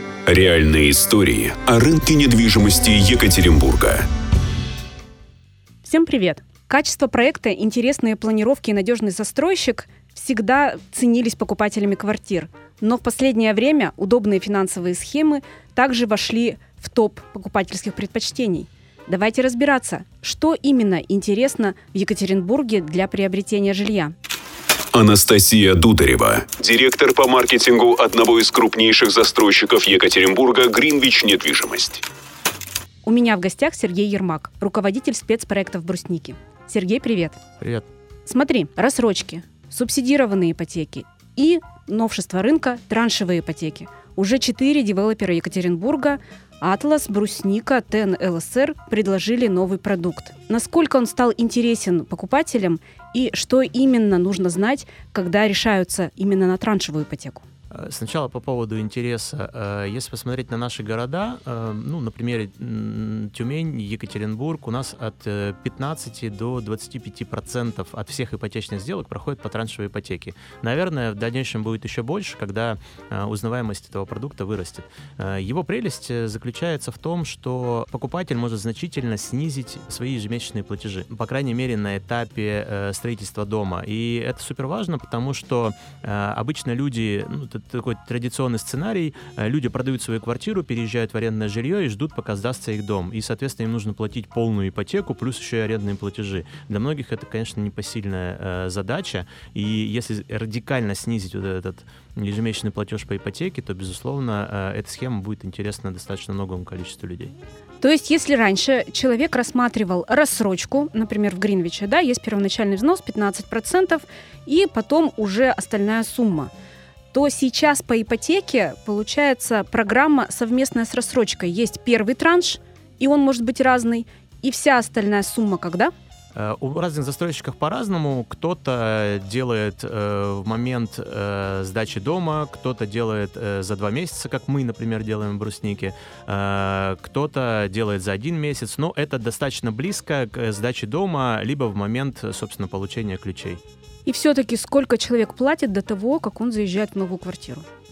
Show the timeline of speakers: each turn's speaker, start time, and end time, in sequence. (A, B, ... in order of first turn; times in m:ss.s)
0:00.2-0:04.1 A
0:05.8-0:24.1 B
0:24.9-0:32.0 A
0:33.0-0:37.4 B
0:37.6-0:37.9 C
0:38.2-0:57.4 B
0:57.7-1:47.3 C
1:47.8-1:56.5 B
1:57.1-2:05.9 B
2:06.3-2:23.6 C
2:24.0-2:27.6 B